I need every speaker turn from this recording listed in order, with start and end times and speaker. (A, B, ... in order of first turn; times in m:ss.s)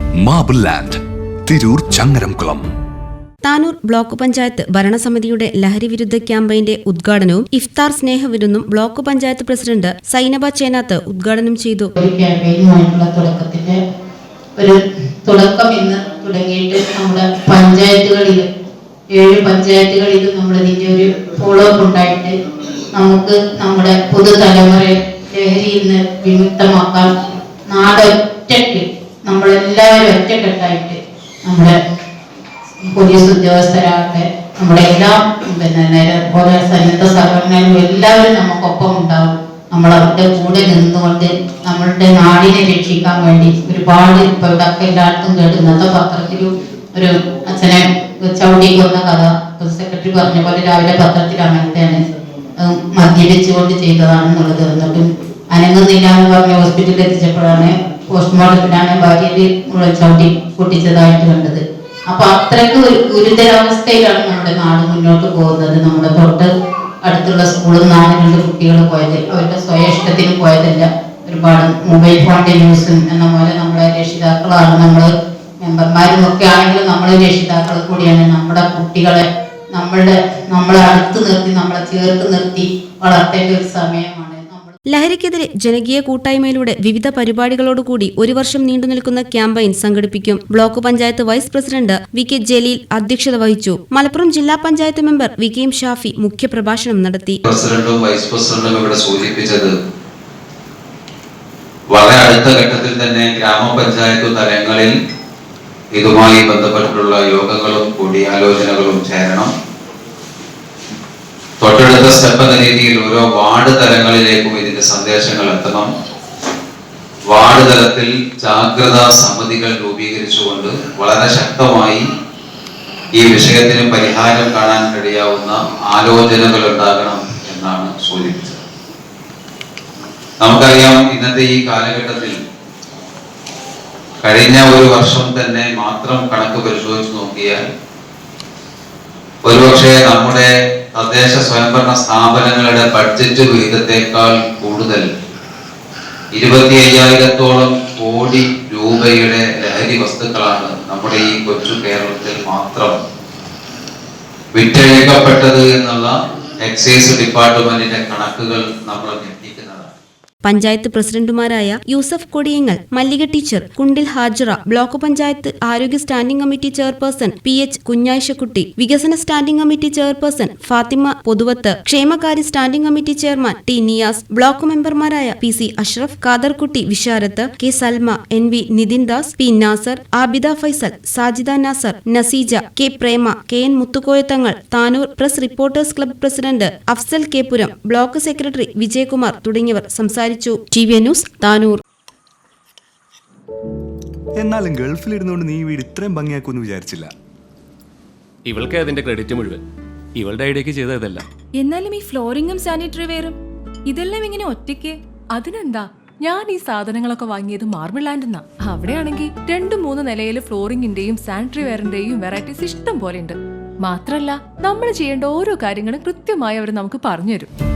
0:00.2-0:02.6 A
0:03.4-0:11.9 B
0:12.0-0:13.8 C
0:14.6-0:18.5 C
0:19.1-0:22.4 C
0:22.9-0:27.1 C
0:27.7-0:31.8 C
0:32.8-0:52.0 C
0:52.6-1:06.5 C
1:07.0-1:24.8 C
1:24.9-1:37.4 B
1:37.4-1:39.7 D
1:41.9-1:44.9 D
1:45.9-1:49.5 D
1:51.6-1:55.9 D
1:57.3-2:02.0 D
2:03.2-2:08.6 D
2:10.4-2:12.4 D
2:14.2-2:17.6 D
2:19.4-2:25.1 D
2:26.3-2:32.9 D
2:34.5-2:39.9 D
2:40.4-3:11.8 B
3:14.4-3:17.1 E
3:18.4-3:19.6 F
3:20.2-3:21.2 F
3:21.6-3:23.4 G
3:23.9-3:37.5 G